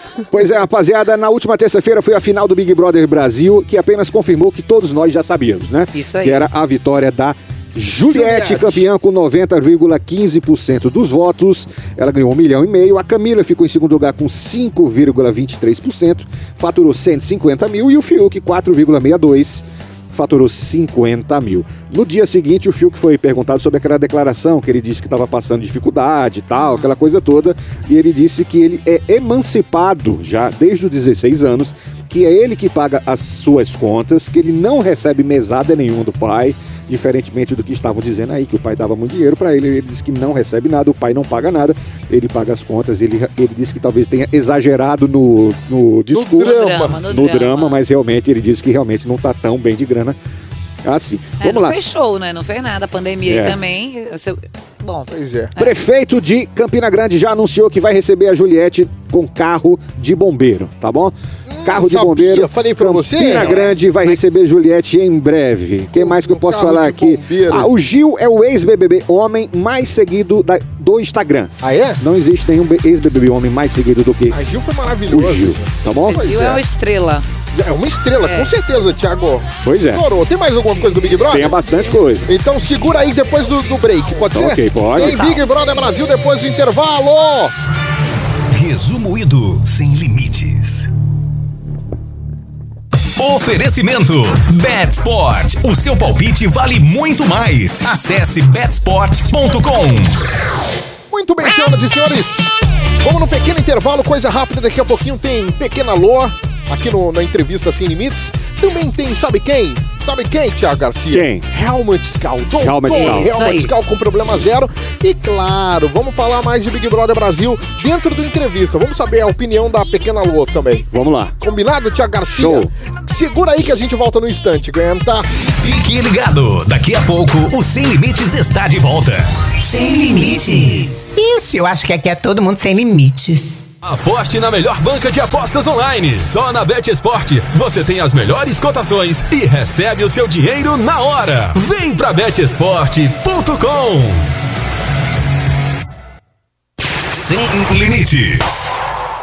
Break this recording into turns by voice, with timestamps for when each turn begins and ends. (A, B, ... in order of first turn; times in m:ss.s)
0:00.3-0:50.2 A
0:05.9-0:06.4 B
0:08.1-0:08.9 C
0:26.6-0:26.9 B
0:46.1-0:47.0 C
0:46.4-0:47.8 B
0:50.8-0:51.8 A
0:51.4-0:55.7 B
0:53.2-0:53.6 A
0:55.1-0:55.5 C
0:55.6-1:14.4 A
1:01.5-1:03.8 C
1:03.3-1:03.7 B
1:05.9-1:07.7 C
1:11.6-1:12.0 C
1:14.3-1:16.6 C
1:15.1-1:16.4 A
1:16.1-1:17.3 B
1:17.5-1:21.6 C
1:18.2-1:18.5 B
1:19.6-1:20.0 A
1:21.3-1:22.3 A
1:22.3-1:27.5 C
1:24.3-1:25.2 A
1:25.0-1:25.4 B
1:28.5-1:30.9 D
1:33.2-1:40.2 D
1:41.1-2:00.9 C
1:51.1-1:51.5 A
1:52.6-1:53.3 A
1:52.9-1:53.7 B
2:00.9-2:01.4 A
2:01.4-2:05.3 C
2:02.3-2:02.7 A
2:05.5-2:09.3 D
2:09.6-2:13.6 E
2:13.8-2:24.3 F
2:27.0-2:28.7 D